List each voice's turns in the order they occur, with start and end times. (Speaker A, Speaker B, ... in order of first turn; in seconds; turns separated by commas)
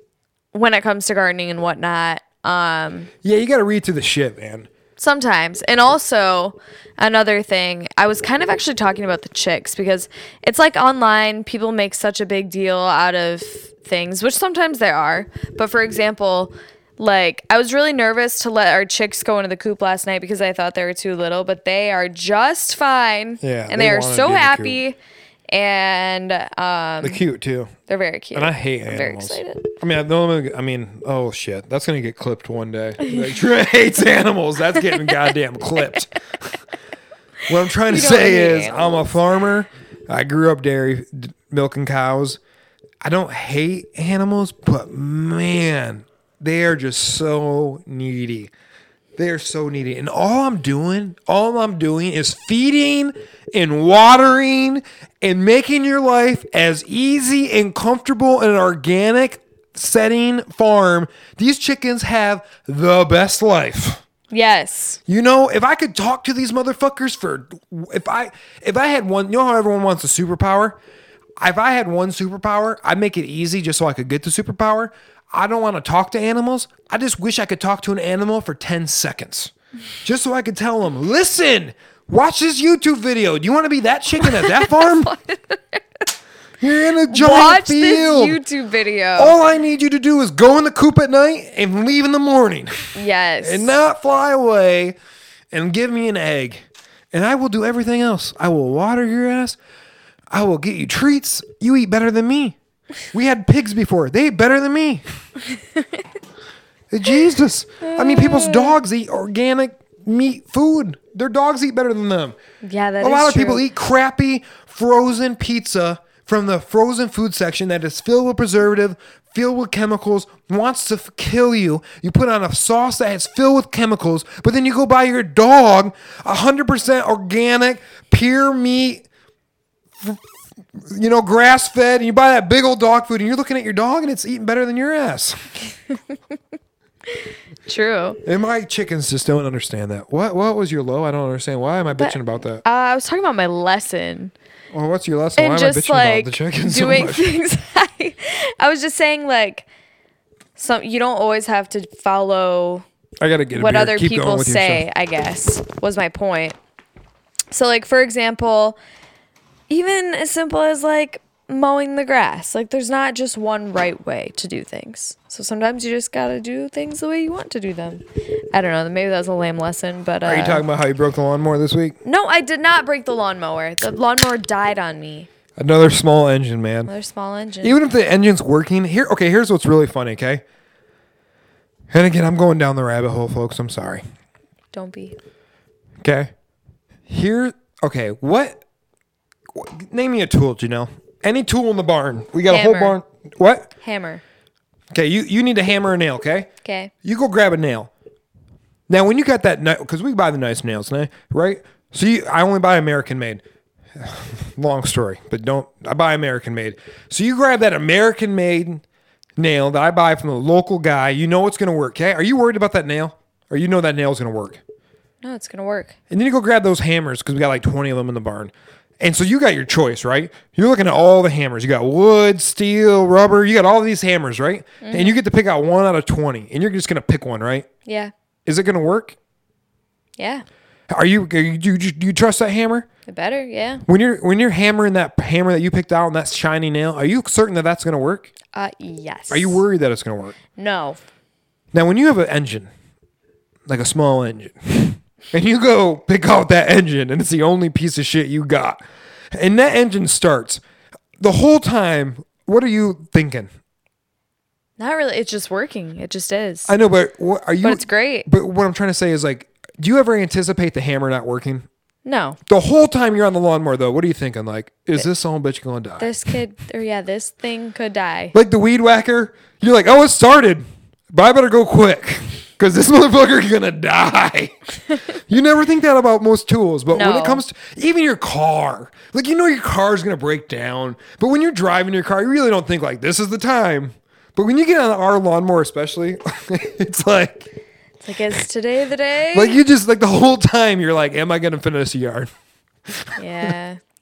Speaker A: 0.5-3.1, Speaker B: 3.2-4.7, Speaker A: 5.0-24.9, Speaker B: 23.4-24.8, Speaker A: 25.5-27.2, Speaker B: 27.0-27.7, Speaker A: 27.9-29.7, Speaker B: 28.3-36.5, Speaker B: 37.5-42.4, Speaker A: 37.8-39.1, Speaker B: 43.0-48.5, Speaker B: 49.2-64.0, Speaker A: 64.3-65.0, Speaker B: 65.1-70.8, Speaker B: 71.4-79.5, Speaker B: 80.0-85.1, Speaker A: 84.2-85.8, Speaker B: 86.6-88.4, Speaker A: 87.1-89.3, Speaker B: 89.2-95.0, Speaker A: 92.9-93.8, Speaker B: 95.5-99.6, Speaker B: 100.3-102.5, Speaker B: 103.1-105.0, Speaker B: 106.9-112.4, Speaker A: 107.8-108.7, Speaker A: 112.6-113.6, Speaker B: 113.0-129.0, Speaker B: 130.8-135.5, Speaker A: 137.7-138.2, Speaker B: 138.2-142.6, Speaker A: 142.0-144.3, Speaker B: 144.7-147.3, Speaker A: 145.4-149.7, Speaker A: 150.6-152.8, Speaker B: 153.2-154.8, Speaker A: 153.5-156.6, Speaker A: 157.5-158.8, Speaker A: 159.7-170.6, Speaker B: 170.2-172.0, Speaker A: 172.0-175.3, Speaker B: 175.6-176.9, Speaker A: 176.9-177.8, Speaker B: 177.6-180.4, Speaker B: 181.9-184.0, Speaker A: 184.7-185.2, Speaker B: 186.0-186.3, Speaker B: 187.1-188.6, Speaker B: 189.5-193.7, Speaker A: 192.5-193.0, Speaker A: 193.8-194.2, Speaker B: 194.9-196.5, Speaker A: 196.6-196.9, Speaker B: 197.0-197.9, Speaker B: 198.9-203.4, Speaker B: 203.9-208.8, Speaker B: 209.4-214.6, Speaker A: 215.2-215.9, Speaker B: 216.1-227.7, Speaker A: 224.8-225.2, Speaker A: 227.8-228.1, Speaker B: 228.4-229.2, Speaker A: 230.2-230.4, Speaker B: 230.9-232.9, Speaker A: 233.1-233.8, Speaker B: 233.9-238.3, Speaker A: 238.5-239.6, Speaker B: 239.3-240.4, Speaker A: 240.6-241.0, Speaker B: 241.7-242.7, Speaker B: 243.7-248.8, Speaker B: 249.3-250.6, Speaker B: 251.2-253.5, Speaker A: 254.8-256.7, Speaker B: 256.7-261.6, Speaker A: 257.6-258.3, Speaker A: 262.0-262.4, Speaker B: 262.5-266.1, Speaker A: 266.0-268.3, Speaker B: 268.3-287.5, Speaker A: 276.9-277.4, Speaker A: 288.0-289.6, Speaker B: 289.3-292.3, Speaker B: 292.9-293.5, Speaker A: 293.2-293.8